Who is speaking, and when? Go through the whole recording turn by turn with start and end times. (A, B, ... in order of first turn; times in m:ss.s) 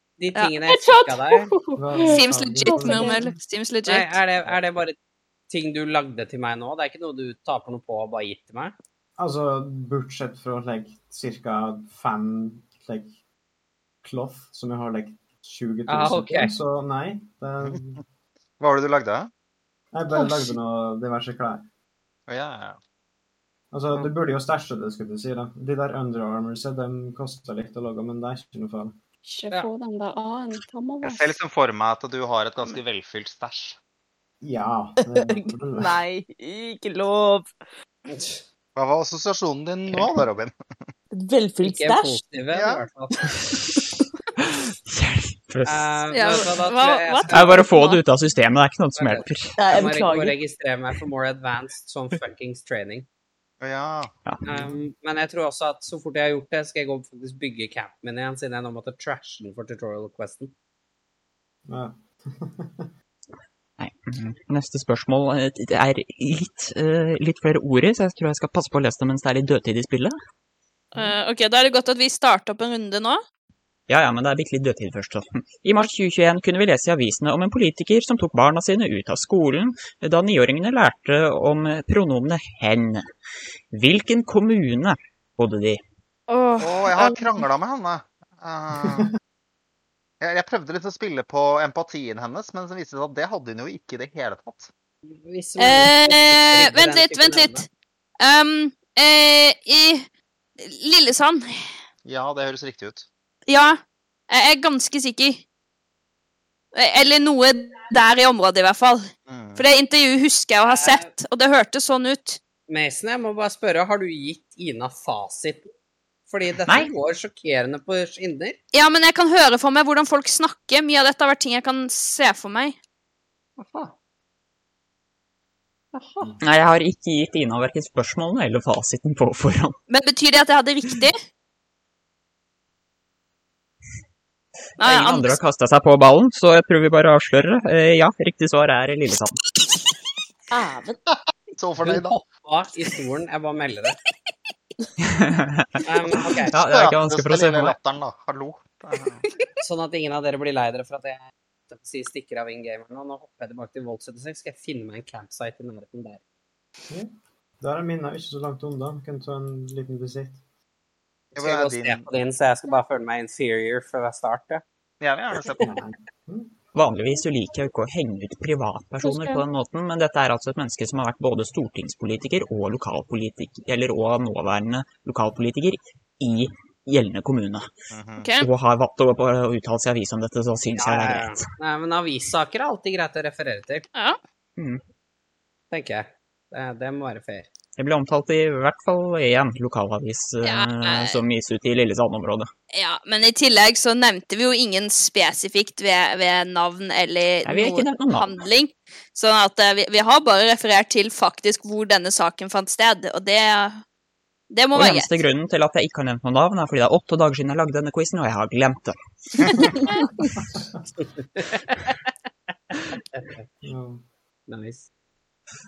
0:00.2-0:01.5 A
0:00.7-0:03.3 B
0:01.8-0:03.2 C
0:02.0-0:04.2 D
0:03.8-0:05.0 A
0:05.5-0:08.7 A
0:09.2-0:13.1 C
0:14.0-0:18.0 C
0:15.9-0:16.5 A
0:18.6-0:19.3 E
0:19.9-0:21.6 C
0:20.1-0:20.5 B
0:22.3-0:22.8 E
0:23.7-0:28.9 C
0:29.2-0:31.3 B
0:31.0-0:33.8 E
0:34.4-0:36.0 C
0:35.1-0:37.5 F
0:38.1-0:38.4 A
0:38.8-0:40.6 E
0:41.1-0:42.2 F
0:41.6-0:43.3 A
0:42.5-0:42.8 E
0:44.4-0:46.0 G
0:45.6-0:47.6 A
0:46.1-0:48.0 D
0:47.3-0:49.5 G
0:49.0-0:53.0 A
0:49.6-0:50.4 F
0:53.6-0:54.1 E
0:54.4-1:00.5 A
1:01.7-1:02.9 C
1:03.8-1:10.1 G
1:10.9-1:13.2 D
1:13.9-1:23.0 G
1:23.7-1:25.8 G
1:26.3-1:27.4 D
1:26.6-1:29.1 E
1:30.2-1:34.7 E
1:35.1-1:37.6 A
1:35.6-1:37.7 D
1:38.2-1:40.1 D
1:40.6-1:41.7 D
1:42.0-1:43.1 E
1:43.5-1:45.4 D
1:46.7-1:52.4 D
1:49.3-1:49.6 E
1:50.7-1:51.1 A
1:52.7-1:55.7 A
1:56.3-1:58.6 A
1:58.7-2:02.8 D
2:03.6-2:03.9 A
2:05.9-2:06.3 A
2:06.4-2:09.8 G
2:09.9-2:11.2 D
2:14.8-2:15.4 D
2:14.8-2:19.4 G
2:20.5-2:21.0 F
2:21.1-2:22.2 E
2:21.8-2:24.0 A
2:25.0-2:25.8 G
2:25.8-2:26.5 A
2:26.5-2:27.8 G
2:26.5-2:29.2 E
2:29.6-2:36.2 A
2:36.9-2:40.4 C
2:41.3-2:44.6 A
2:41.4-2:42.0 E
2:45.0-2:45.7 E
2:45.6-2:46.5 C
2:46.7-2:57.7 G
2:49.0-2:49.4 B
2:57.9-2:58.3 E
2:58.2-2:58.5 D
2:58.4-3:01.4 G
3:00.8-3:03.9 A
3:03.9-3:04.2 D
3:05.7-3:07.5 A
3:07.8-3:12.5 G
3:10.4-3:11.2 D
3:12.7-3:23.8 D
3:17.4-3:18.3 G
3:24.5-3:25.2 D
3:24.7-3:29.6 G
3:30.4-3:30.8 C
3:31.3-3:32.0 A
3:32.9-3:33.4 A
3:33.6-3:34.0 C
3:34.5-3:34.8 A